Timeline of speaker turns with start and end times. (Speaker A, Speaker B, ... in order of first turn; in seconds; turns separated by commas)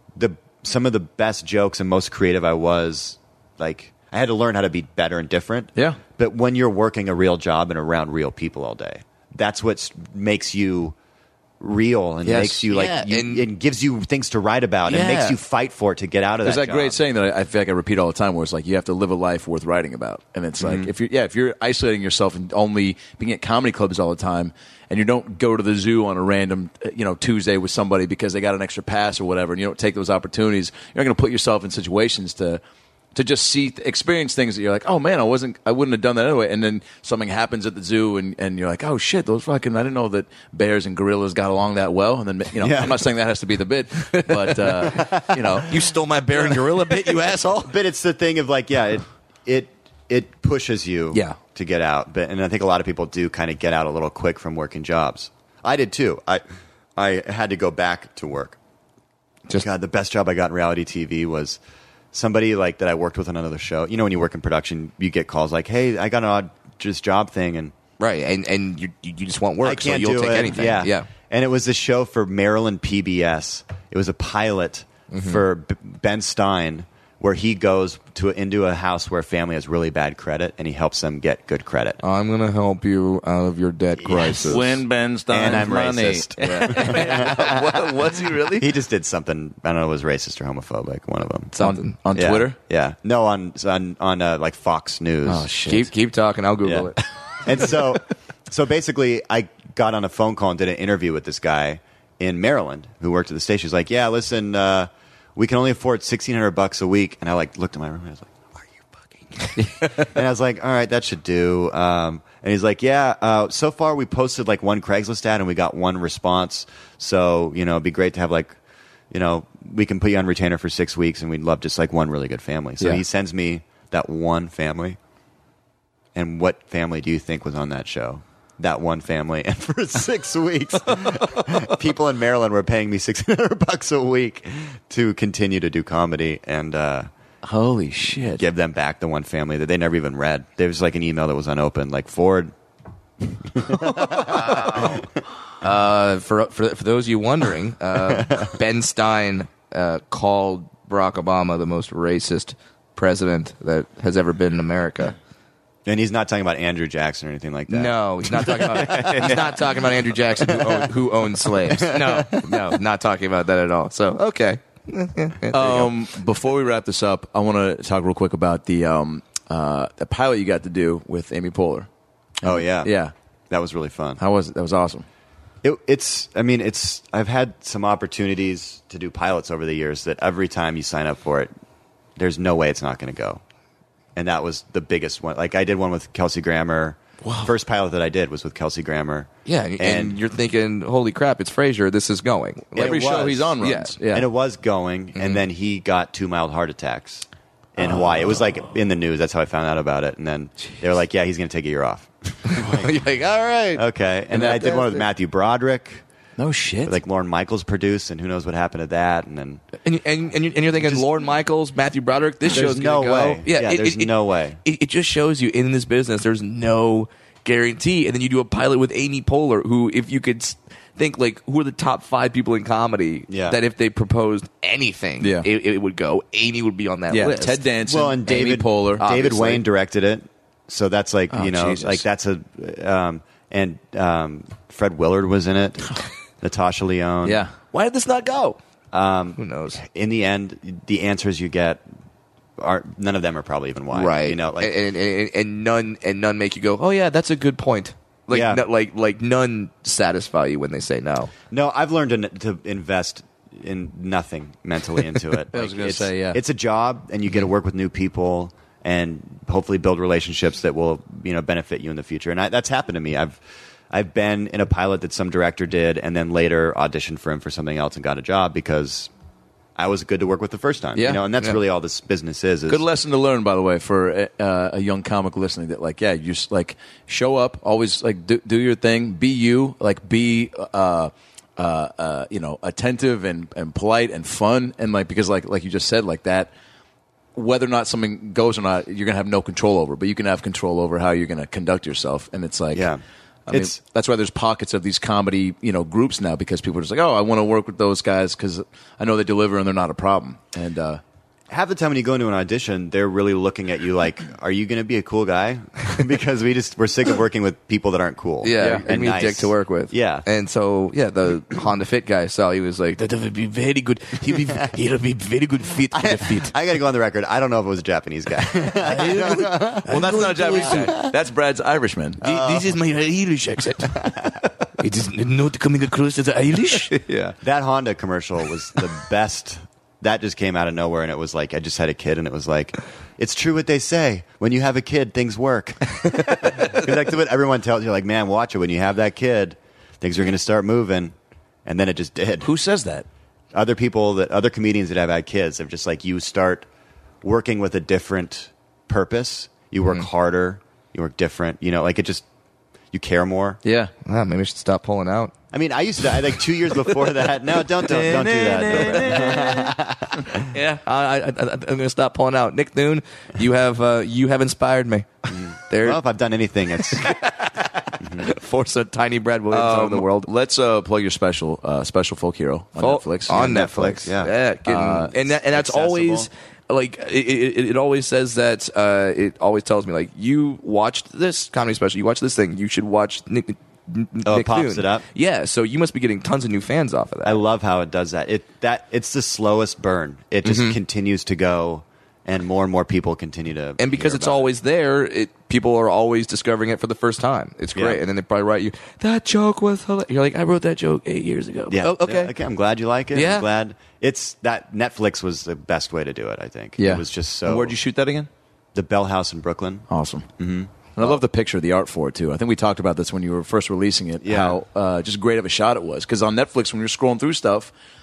Speaker A: 0.1-11.0, Speaker A: 11.6-17.0, Speaker B: 12.2-12.6, Speaker C: 12.7-13.5, Speaker C: 14.9-15.4, Speaker B: 16.4-32.6, Speaker A: 20.6-20.9, Speaker B: 33.1-45.9, Speaker A: 42.6-43.1, Speaker C: 44.1-44.6, Speaker A: 44.7-45.6, Speaker C: 45.6-47.8, Speaker A: 47.7-56.4, Speaker B: 51.1-51.4, Speaker A: 57.0-58.6, Speaker A: 59.6-61.6, Speaker A: 62.1-67.7, Speaker C: 68.0-71.1, Speaker A: 69.6-82.0, Speaker C: 75.1-75.4, Speaker C: 82.0-84.8, Speaker A: 84.0-84.8, Speaker B: 84.5-87.3, Speaker A: 85.3-87.9, Speaker C: 86.4-88.7, Speaker A: 88.5-91.5, Speaker C: 91.6-92.0, Speaker B: 91.6-92.5, Speaker A: 92.1-95.5, Speaker B: 95.3-95.9, Speaker C: 95.7-97.0, Speaker A: 96.6-96.9, Speaker A: 97.4-118.6, Speaker A: 119.1-125.0, Speaker A: 126.2-137.1, Speaker B: 137.4-138.4, Speaker A: 138.3-142.5, Speaker A: 143.3-145.1, Speaker C: 145.6-155.2, Speaker A: 148.1-148.4, Speaker A: 155.9-159.7, Speaker C: 157.7-165.9, Speaker A: 160.4-160.9, Speaker A: 161.7-162.6, Speaker B: 165.5-171.9, Speaker B: 172.4-173.1, Speaker A: 172.4-172.9, Speaker A: 173.5-174.2, Speaker B: 174.2-175.1, Speaker A: 175.6-181.5, Speaker A: 182.2-183.4, Speaker A: 184.2-190.2, Speaker B: 187.2-187.5, Speaker C: 189.5-193.9, Speaker A: 192.8-193.6, Speaker B: 192.8-194.3, Speaker A: 194.1-202.9, Speaker C: 195.2-195.4, Speaker C: 202.5-205.1, Speaker A: 203.8-206.0, Speaker B: 206.4-207.0, Speaker A: 206.8-209.6, Speaker C: 209.8-227.6, Speaker A: 210.8-211.1, Speaker A: 212.5-214.6, Speaker B: 212.5-212.9, Speaker A: 223.3-223.6, Speaker B: 225.2-225.5, Speaker B: 227.1-229.1, Speaker A: 227.8-237.4, Speaker C: 229.0-229.6, Speaker B: 231.3-232.0, Speaker B: 237.2-237.6, Speaker C: 237.7-238.6, Speaker A: 238.9-241.8, Speaker C: 239.4-239.8, Speaker A: 242.6-244.7, Speaker C: 243.9-251.3, Speaker A: 248.3-248.6, Speaker A: 251.5-269.1, Speaker B: 255.5-256.4, Speaker A: 269.8-272.9, Speaker B: 271.0-271.2, Speaker B: 272.7-286.5, Speaker B: 287.4-292.9, Speaker A: 292.7-293.8, Speaker B: 293.5-301.0, Speaker A: 301.5-310.3, Speaker C: 308.4-316.5, Speaker A: 315.9-320.9, Speaker C: 318.7-321.2, Speaker B: 319.9-322.2, Speaker C: 322.2-324.1, Speaker A: 322.2-322.7, Speaker A: 324.1-324.4, Speaker C: 324.8-327.1, Speaker B: 327.1-327.4, Speaker A: 327.4-342.5, Speaker B: 342.4-343.1, Speaker A: 343.5-346.7, Speaker A: 347.2-352.2, Speaker A: 352.9-353.6, Speaker B: 353.6-353.9, Speaker C: 354.1-355.3, Speaker A: 355.5-360.5, Speaker B: 357.9-359.7, Speaker C: 358.7-359.6, Speaker C: 360.5-366.0, Speaker A: 365.3-367.1, Speaker C: 366.8-370.3, Speaker A: 368.0-368.3, Speaker B: 369.5-373.5, Speaker C: 372.8-387.4, Speaker A: 373.3-374.3, Speaker B: 374.7-375.1, Speaker A: 375.2-376.3, Speaker A: 384.3-385.1, Speaker A: 387.2-394.5, Speaker C: 390.4-390.8, Speaker C: 393.8-402.3, Speaker A: 397.8-398.0, Speaker A: 401.7-407.8, Speaker C: 403.1-403.5, Speaker B: 406.8-408.3, Speaker A: 408.8-409.9, Speaker B: 409.9-410.3, Speaker A: 410.4-410.7, Speaker B: 410.9-417.7, Speaker A: 414.2-414.6